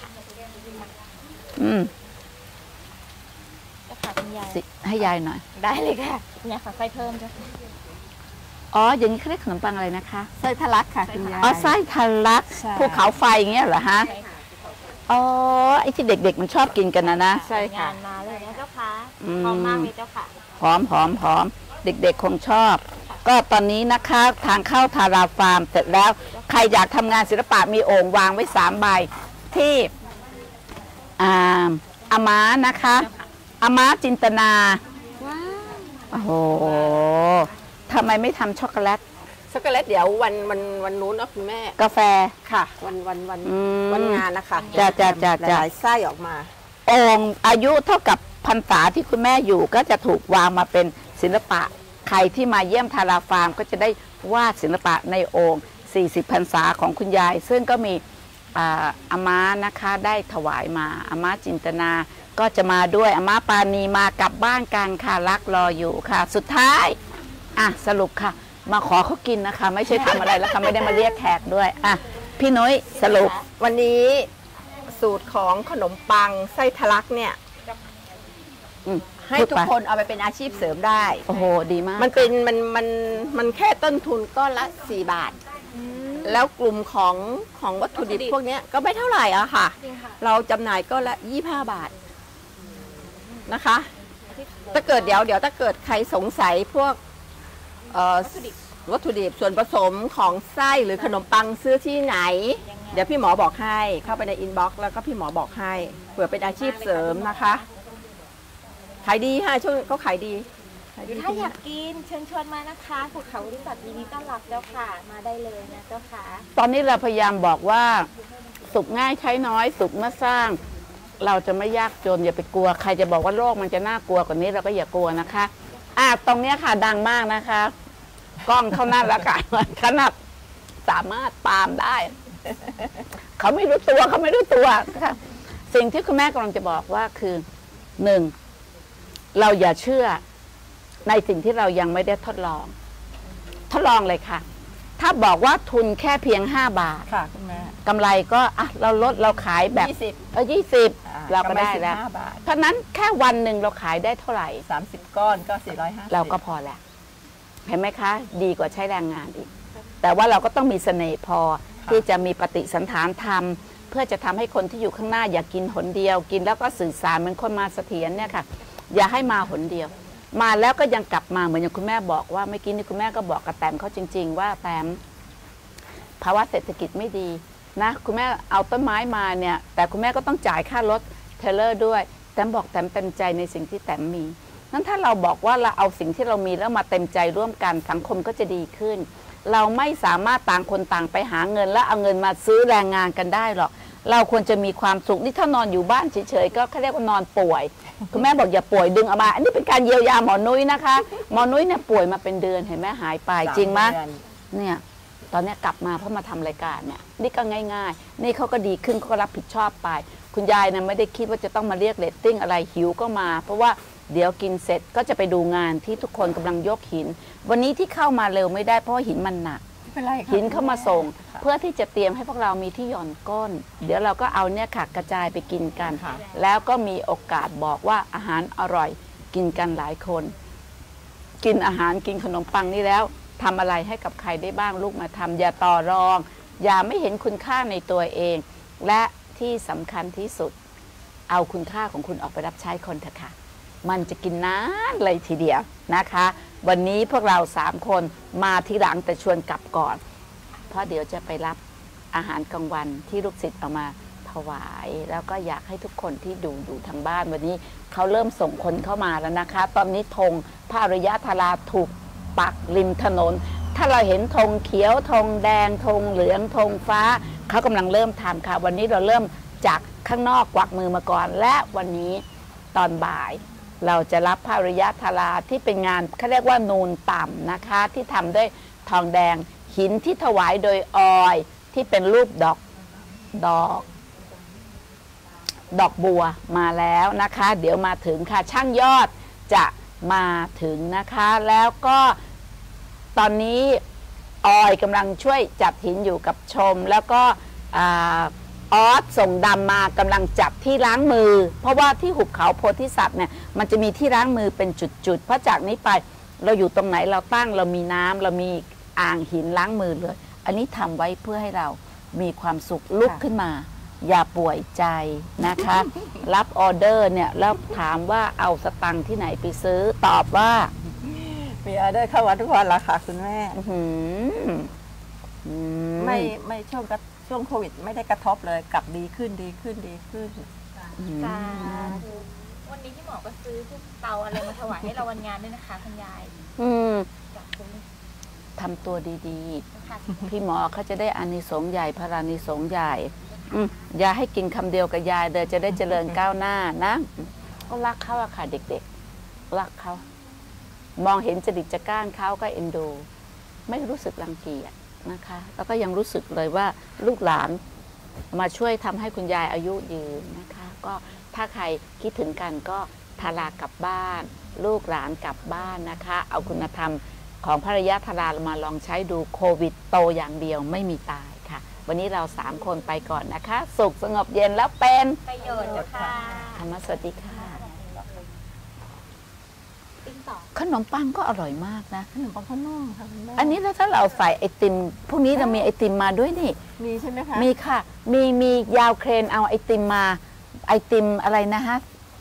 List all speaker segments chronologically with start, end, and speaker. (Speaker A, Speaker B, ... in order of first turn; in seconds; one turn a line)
Speaker A: 0.5-0.9
Speaker B: 1.6-1.9
Speaker A: 3.9-4.6
Speaker B: 4.5-5.4
Speaker A: 5.5-7.6
Speaker B: 8.7-10.3
Speaker C: 10.4-11.8
Speaker A: 11.0-11.7
Speaker B: 11.4-14.1
Speaker C: 12.5-13.1
Speaker A: 14.0-14.4
Speaker B: 15.1-17.4
Speaker A: 17.0-20.3
Speaker C: 17.4-18.0
Speaker B: 19.2-19.9
Speaker B: 20.6-29.9
Speaker A: 26.3-26.7
Speaker B: 31.2-33.1
Speaker A: 32.8-33.3
Speaker B: 33.6-34.8
Speaker C: 35.2-36.0
Speaker B: 36.1-39.0
Speaker C: 39.5-41.8
Speaker B: 41.8-42.3
Speaker C: 42.4-46.5
Speaker B: 43.4-45.6
Speaker A: 44.5-45.2
Speaker B: 46.9-58.0
Speaker B: 58.5-67.0
Speaker B: 67.5-73.3
Speaker C: 70.1-71.0
Speaker A: 73.0-73.5
Speaker C: 73.6-74.3
Speaker C: 74.9-77.4
Speaker B: 78.8-79.7
Speaker C: 79.2-81.3
Speaker B: 81.2-82.3
Speaker C: 82.0-85.4
Speaker A: 85.7-86.5
Speaker C: 86.2-91.9
Speaker A: 88.0-88.4
Speaker A: 89.8-90.2
Speaker C: 93.5-93.9
Speaker A: 94.3-95.3
Speaker C: 94.7-97.0
Speaker C: 97.9-107.6
Speaker A: 98.2-98.6
Speaker A: 100.9-101.2
Speaker A: 102.6-103.2
Speaker A: 106.4-107.7
Speaker C: 109.0-111.5
Speaker A: 111.0-116.5
Speaker B: 116.5-118.1
Speaker B: 118.7-120.6
Speaker B: 121.2-127.7
Speaker B: 128.4-130.1
Speaker B: 130.8-132.1
Speaker B: 133.4-135.2
Speaker B: 135.7-137.4
Speaker B: 138.0-138.3
Speaker B: 139.3-140.2
Speaker B: 141.0-142.7
Speaker B: 143.7-144.4
Speaker B: 145.0-147.1
Speaker C: 147.1-147.8
Speaker B: 147.8-154.6
Speaker C: 149.7-150.3
Speaker C: 151.1-152.4
Speaker C: 154.7-156.4
Speaker B: 156.1-156.8
Speaker B: 157.7-159.5
Speaker B: 160.0-175.0
Speaker B: 176.2-204.0
Speaker C: 203.4-204.2
Speaker B: 204.5-219.6
Speaker C: 219.9-221.4
Speaker B: 220.3-230.3
Speaker C: 225.9-226.3
Speaker B: 231.4-240.5
Speaker B: 241.3-250.0
Speaker B: 250.7-251.6
Speaker B: 252.1-272.2
Speaker B: 272.7-282.6
Speaker B: 283.3-283.9
Speaker B: 285.7-292.1
Speaker B: 293.1-293.8
Speaker B: 294.4-320.7
Speaker C: 321.0-323.6
Speaker B: 323.5-324.7
Speaker B: 325.4-326.3
Speaker C: 326.0-330.5
Speaker B: 331.0-332.0
Speaker A: 331.1-336.3
Speaker B: 336.6-337.1
Speaker A: 337.3-337.9
Speaker B: 338.6-339.6
Speaker A: 339.7-340.3
Speaker B: 340.2-348.8
Speaker B: 349.5-350.0
Speaker B: 351.0-353.1
Speaker B: 353.7-357.6
Speaker B: 358.3-375.2
Speaker A: 375.2-378.3
Speaker C: 375.5-376.3
Speaker B: 376.5-377.6
Speaker A: 380.0-380.5
Speaker B: 380.5-382.1
Speaker C: 382.1-383.6
Speaker B: 383.4-386.6
Speaker C: 385.3-385.7
Speaker C: 386.8-387.5
Speaker B: 387.3-391.8